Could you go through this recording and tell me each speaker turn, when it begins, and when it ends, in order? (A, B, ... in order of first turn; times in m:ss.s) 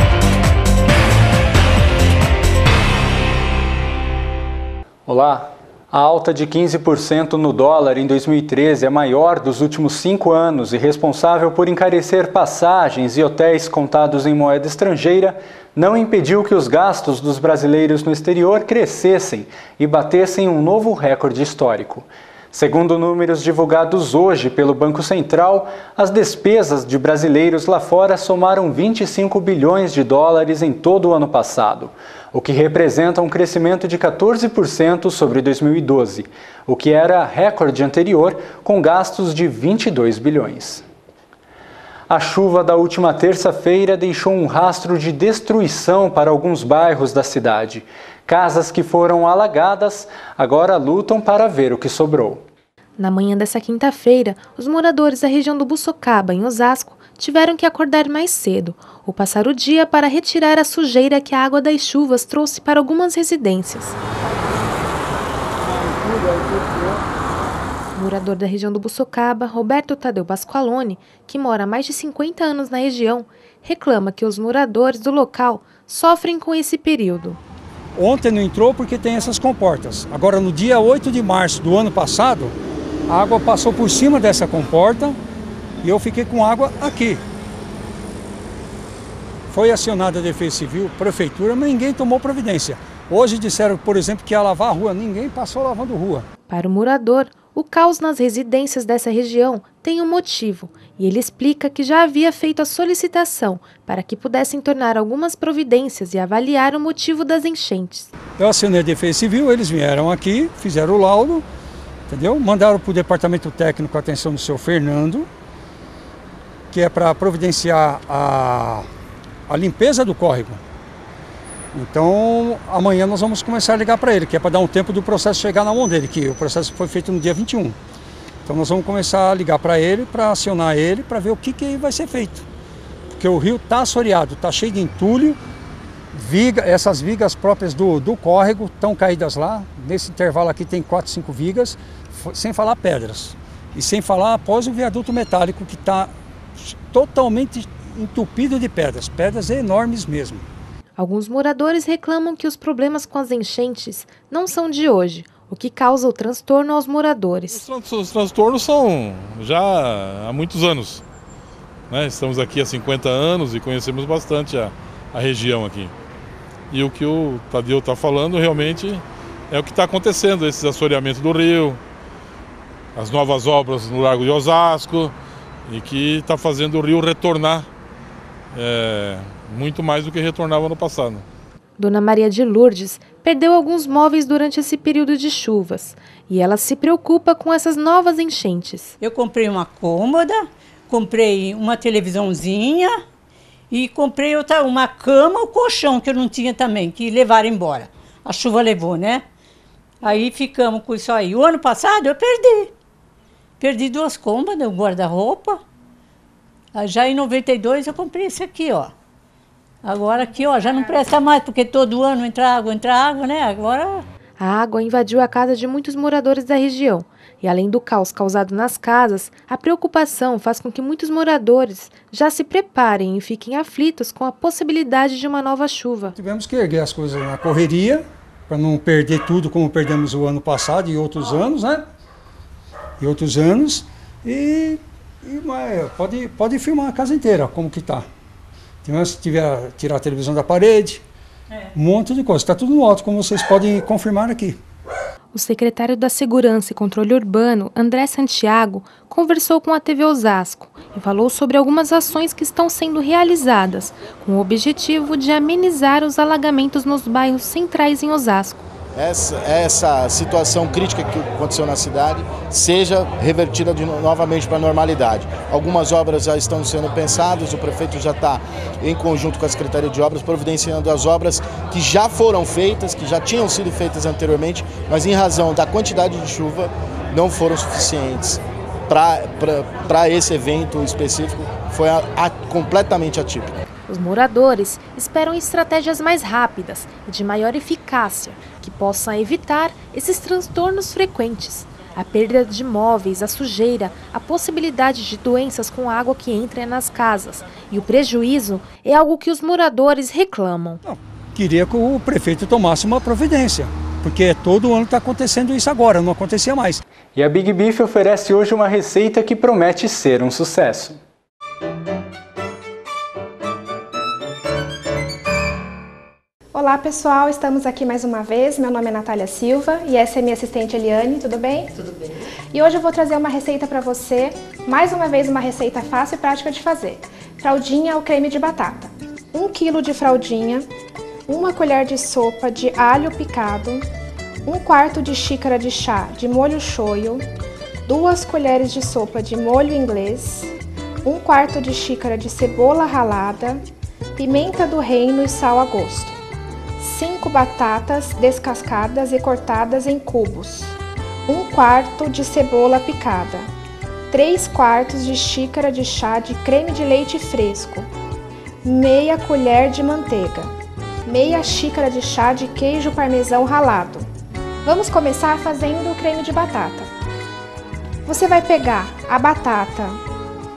0:05.1-0:40.8 A
0:42.1-0:52.4 A
0:53.0-1:04.0 B
1:08.0-1:17.4 B
1:18.0-1:22.6 C
1:23.1-1:25.2 C
1:25.8-1:27.2 C
1:29.5-1:36.3 C
1:36.5-1:48.1 B
1:48.4-1:51.5 C
1:52.1-1:55.3 C
1:56.7-1:58.9 C
1:59.5-2:00.6 C
2:01.7-2:07.8 C
2:08.5-2:12.5 C
2:13.2-2:15.4 C
2:16.1-2:30.5 C
2:31.0-2:37.6 B
2:37.5-2:41.0 D
2:41.9-2:45.9 D
2:46.7-2:51.8 D
2:53.0-2:55.1 D
2:55.7-2:57.7 D
2:58.5-3:01.2 D
3:01.8-3:08.9 B
3:09.0-3:13.0 E
3:13.7-3:19.2 E
3:20.0-3:22.7 E
3:23.6-3:25.6 E
3:26.8-3:28.9 E
3:29.8-3:34.0 E
3:34.4-3:46.1 B
3:46.2-3:51.8 C
3:53.0-3:58.0 C
3:58.8-4:01.0 C
4:01.8-4:04.6 C
4:05.3-4:18.6 B
4:19.0-4:43.6 F
4:43.9-5:00.8 B
5:00.8-5:06.8 C
5:07.2-5:11.0 A
5:16.5-5:21.8 G
5:22.5-5:30.7 G
5:31.3-5:33.9 G
5:34.5-5:37.3 G
5:37.9-5:40.5 G
5:41.0-5:43.6 G
5:44.2-5:46.2 G
5:46.8-5:53.5 G
5:54.1-5:57.9 G
5:58.6-6:00.5 G
6:01.1-6:04.1 G
6:04.6-6:06.9 G
6:08.1-6:10.0 G